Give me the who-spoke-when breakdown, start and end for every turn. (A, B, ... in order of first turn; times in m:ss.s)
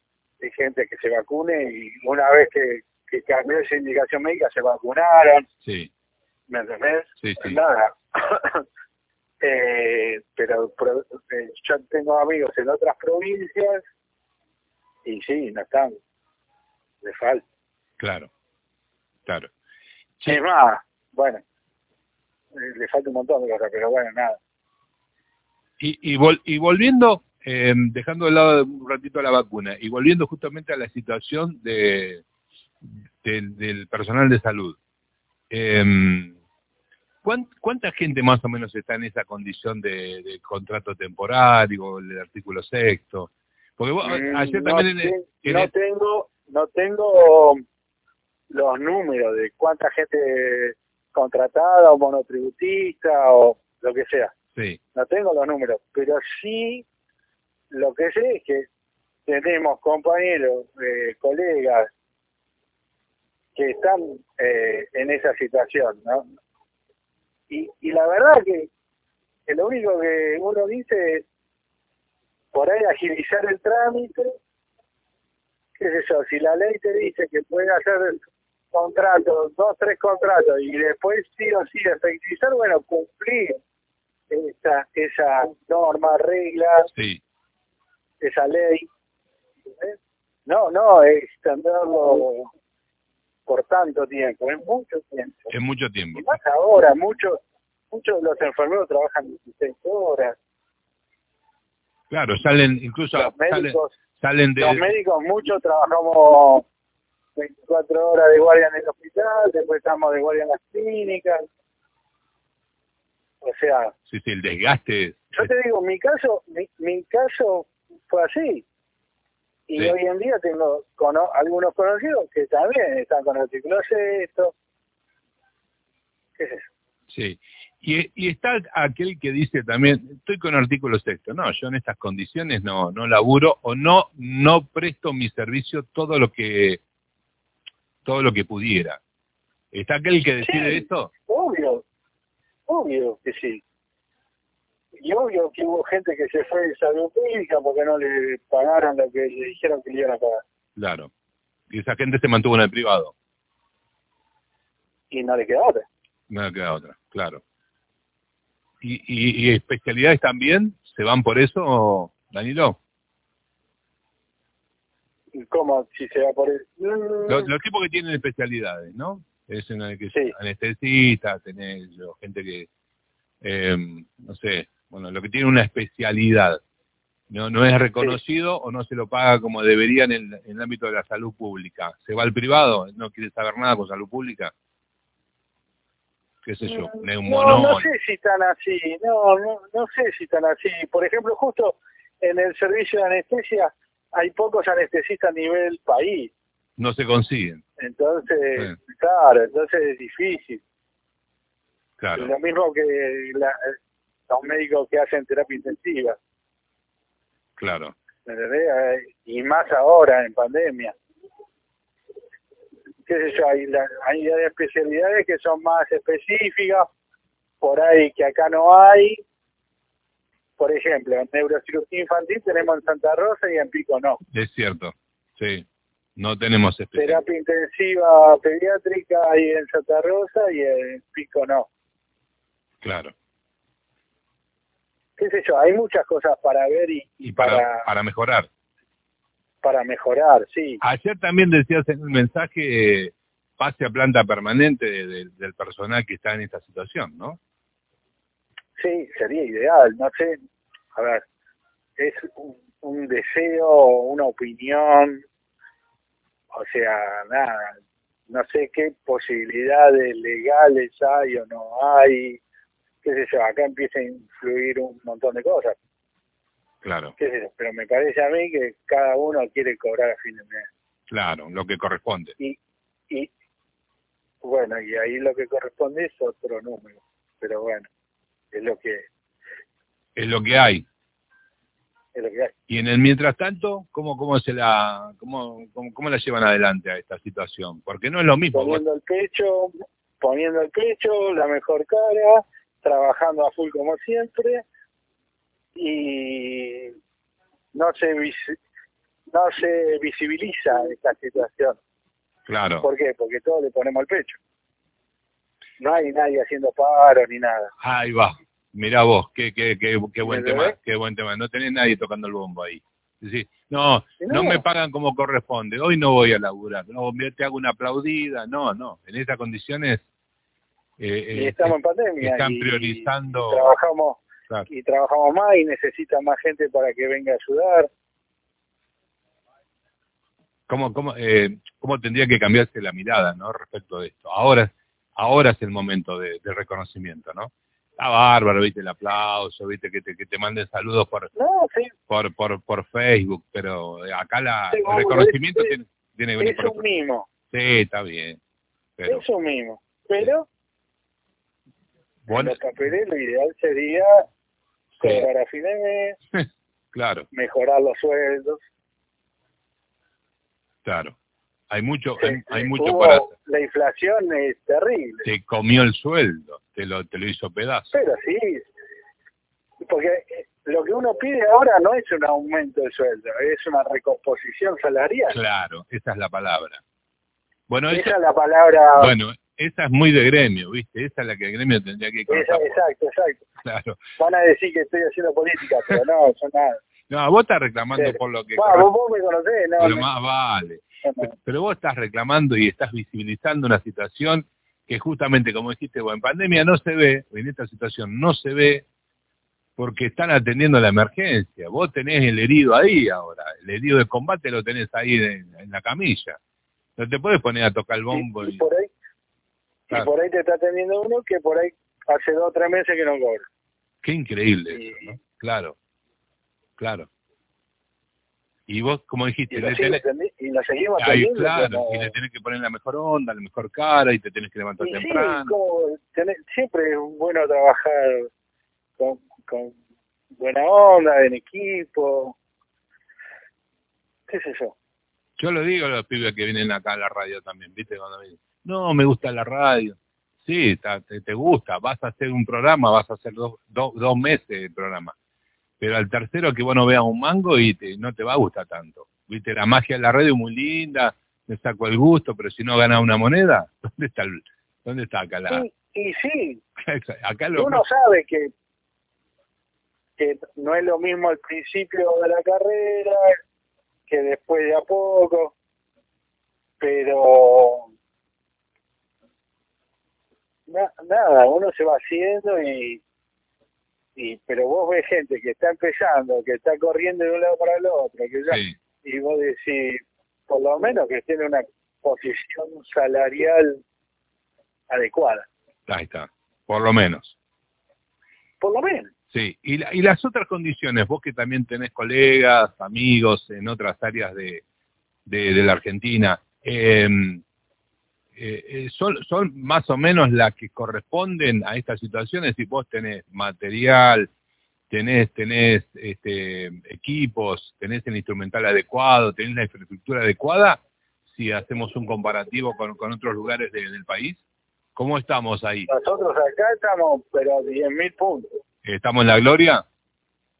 0:00.4-0:05.4 A
0:05.6-0:05.9 B
0:06.5-0:08.6 A
0:07.2-0:07.6 B
0:09.4-0:13.8 A
0:15.0-0:16.0 A
0:17.0-0:17.4 A
0:18.0-0:18.3 B
0:19.2-0:19.5 B
0:20.2-0:21.4 A
0:22.5-0:24.4 A
0:25.8-0:32.2 B
0:33.2-0:34.8 B
0:35.5-0:36.4 B
0:37.2-0:45.7 B
0:44.0-0:47.6 A
0:48.5-0:54.3 A
0:54.5-0:54.8 B
0:54.9-0:56.8 A
0:57.7-0:58.7 A
0:59.3-1:01.9 A
1:03.5-1:06.2 A
1:07.5-1:08.7 A
1:09.5-1:11.2 A
1:12.5-1:14.4 A
1:15.8-1:23.6 A
1:24.3-1:26.9 A
1:26.9-1:27.2 B
1:28.2-1:28.9 A
1:29.7-1:32.5 A
1:33.5-1:35.5 A
1:35.5-1:36.4 B
1:36.2-1:37.4 A
1:37.9-1:40.4 A
1:42.1-1:44.9 B
1:43.2-1:43.9 A
1:44.6-1:46.6 A
1:47.4-1:51.4 A
1:53.4-1:53.9 A
1:54.1-1:55.5 B
1:55.3-1:58.6 A
1:59.7-2:04.5 A
2:06.4-2:06.7 A
2:07.1-2:16.8 B
2:18.0-2:19.0 B
2:19.7-2:21.1 B
2:20.4-2:21.8 A
2:22.7-2:23.6 A
2:25.0-2:30.4 A
2:30.8-2:31.1 B
2:31.7-2:33.1 B
2:35.1-2:35.8 A
2:36.3-2:37.4 B
2:38.8-2:42.8 B
2:45.3-2:47.5 A
2:47.3-2:52.7 B
2:53.4-2:56.6 B
2:57.3-3:04.5 B
3:06.4-3:07.9 B
3:06.6-3:16.3 A
3:16.8-3:17.6 B
3:17.8-3:20.6 A
3:22.0-3:22.3 B
3:22.1-3:23.7 A
3:24.3-3:26.2 A
3:27.6-3:27.9 B
3:28.2-3:31.0 A
3:33.0-3:36.9 A
3:37.6-3:39.2 A
3:40.6-3:44.2 A
3:44.3-3:45.6 B
3:46.2-3:47.2 B
3:47.0-3:51.7 A
3:52.8-3:53.1 B
3:55.2-3:57.9 A
3:57.2-3:58.5 B
3:59.6-4:00.8 A
4:00.8-4:07.4 B
4:08.8-4:10.4 A
4:10.9-4:11.2 A
4:12.0-4:15.2 A
4:16.5-4:17.8 A
4:18.3-4:22.4 A
4:23.0-4:25.8 A
4:26.8-4:27.1 B
4:27.2-4:30.7 A
4:31.1-4:32.3 B
4:34.4-4:37.9 A
4:38.5-4:39.1 A
4:40.2-4:40.8 B
4:42.1-4:42.5 A
4:42.7-4:48.8 B
4:48.5-4:54.6 A
4:55.7-4:57.0 A
4:57.7-4:58.6 A
4:59.3-5:01.8 A
5:02.5-5:02.9 B
5:02.8-5:04.4 A
5:05.8-5:07.7 A
5:07.8-5:20.0 B
5:10.2-5:10.8 A
5:14.2-5:14.6 A
5:21.0-5:23.7 B
5:21.3-5:27.9 A
5:30.7-5:41.3 B
5:41.4-5:41.9 A
5:42.1-5:46.8 B
5:44.7-5:45.7 A
5:46.4-5:47.3 A
5:47.5-5:48.4 B
5:49.0-5:49.2 B
5:49.1-5:50.5 A
5:52.2-5:52.6 B
5:52.3-5:54.2 A
5:55.0-5:55.3 B
5:55.0-5:56.2 A
5:56.3-5:57.3 B
5:57.3-5:58.6 A
6:00.8-6:01.1 B
6:01.7-6:03.3 B
6:02.2-6:05.2 A
6:05.2-6:07.9 B
6:07.9-6:08.7 A
6:09.8-6:15.4 A
6:15.3-6:16.8 B
6:17.7-6:18.2 B
6:17.9-6:19.1 A
6:19.0-6:22.8 B
6:22.3-6:23.4 A
6:23.6-6:24.0 B
6:24.2-6:26.8 A
6:27.1-6:28.9 B
6:28.0-6:30.1 A
6:29.8-6:38.8 B
6:31.0-6:31.3 A
6:39.8-6:46.4 B
6:47.0-6:48.6 B
6:48.1-6:48.9 A
6:49.9-6:53.4 A
6:54.0-6:55.7 B
6:54.7-6:55.1 A
6:56.8-6:57.1 B
6:58.7-7:00.0 B
6:59.5-7:02.1 A
7:01.0-7:05.5 B
7:04.8-7:08.3 A
7:09.0-7:09.8 A
7:10.4-7:12.4 A
7:14.3-7:14.7 A
7:15.4-7:25.1 B
7:25.8-7:35.7 B
7:35.5-7:36.6 A
7:36.8-7:37.8 B
7:37.6-7:38.5 A
7:40.2-7:43.4 A
7:44.1-7:45.5 A
7:46.8-7:47.9 A
7:50.7-7:53.0 A
7:54.2-8:03.8 A
7:58.5-7:58.7 B
8:04.9-8:05.5 A
8:05.9-8:07.3 B
8:08.6-8:09.1 A
8:09.3-8:14.6 B
8:15.2-8:17.4 B
8:18.4-8:24.3 B
8:24.9-8:34.4 B
8:35.0-8:35.9 B
8:35.9-8:38.5 A
8:38.8-8:39.8 B